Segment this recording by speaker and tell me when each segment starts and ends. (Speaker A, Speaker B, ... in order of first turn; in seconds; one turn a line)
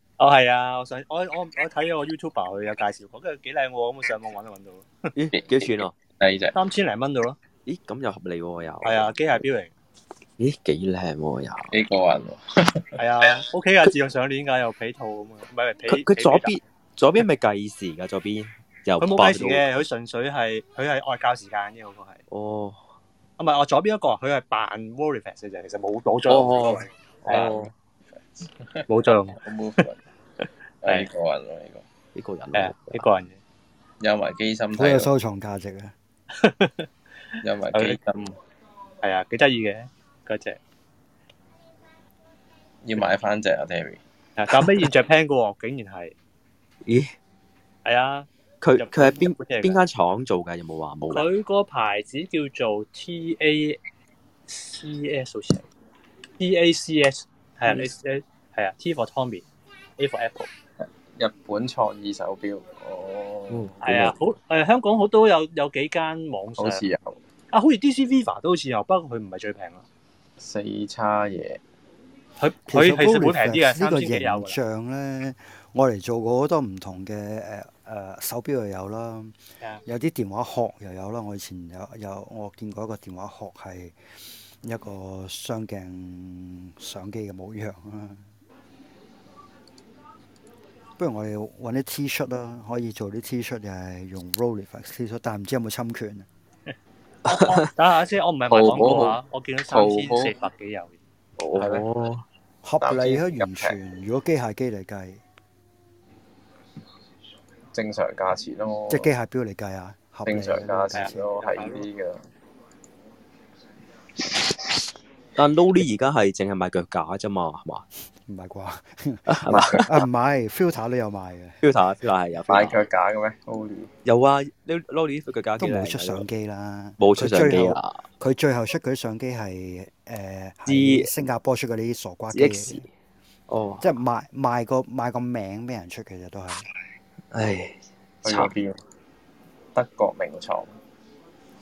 Speaker A: 0.2-5.1
Speaker B: 5.1-5.9
Speaker C: 5.3-6.5
Speaker A: 6.5-7.4
Speaker B: 7.7-9.1
Speaker A: 8.8-9.7
Speaker B: 10.4-11.7
Speaker C: 11.7-12.9
Speaker A: 13.0-16.6
Speaker B: 15.9-19.6
Speaker A: 19.0-22.2
Speaker B: 22.3-22.8
Speaker A: 23.4-27.6
Speaker B: 26.3-26.8
Speaker C: 27.2-27.7
Speaker C: 28.4-28.8
Speaker A: 28.9-29.4
Speaker C: 29.4-30.0
Speaker C: 30.8-31.8
Speaker B: 32.1-33.1
Speaker A: 32.5-33.4
Speaker C: 34.0-35.1
Speaker D: 34.7-35.9
Speaker A: 36.3-36.9
Speaker C: 37.4-38.3
Speaker A: 37.7-38.0
Speaker A: 39.0-40.6
Speaker C: 42.8-44.0
Speaker A: 44.4-46.1
Speaker B: 44.5-44.9
Speaker B: 46.8-47.1
Speaker A: 47.8-49.8
Speaker B: 48.6-51.3
Speaker A: 51.1-53.8
Speaker A: 54.5-55.7
Speaker A: 56.4-59.4
Speaker A: 60.0-60.5
Speaker C: 60.8-63.8
Speaker B: 63.5-64.1
Speaker A: 63.8-66.8
Speaker C: 66.6-67.2
Speaker A: 67.5-69.8
Speaker C: 70.4-71.6
Speaker A: 72.4-74.6
Speaker D: 72.7-84.0
Speaker D: 84.6-88.2
Speaker D: 91.0-96.3
Speaker A: 97.2-101.0
Speaker B: 97.3-97.7
Speaker C: 98.5-100.3
Speaker B: 101.4-102.2
Speaker C: 101.5-101.8
Speaker D: 102.6-105.2
Speaker C: 102.8-103.8
Speaker C: 107.7-109.1
Speaker D: 108.9-111.3
Speaker C: 110.2-112.2
Speaker A: 110.9-111.8
Speaker B: 115.3-117.8
Speaker D: 118.3-121.6
Speaker B: 119.2-119.9
Speaker C: 119.5-119.9
Speaker B: 121.6-122.8
Speaker C: 122.5-123.9
Speaker B: 124.0-126.3
Speaker D: 125.6-132.9
Speaker B: 127.0-128.0
Speaker B: 130.7-131.1
Speaker B: 132.3-132.9
Speaker B: 133.5-133.9
Speaker D: 133.8-136.7
Speaker B: 137.3-138.5
Speaker C: 138.2-138.8
Speaker C: 139.7-140.7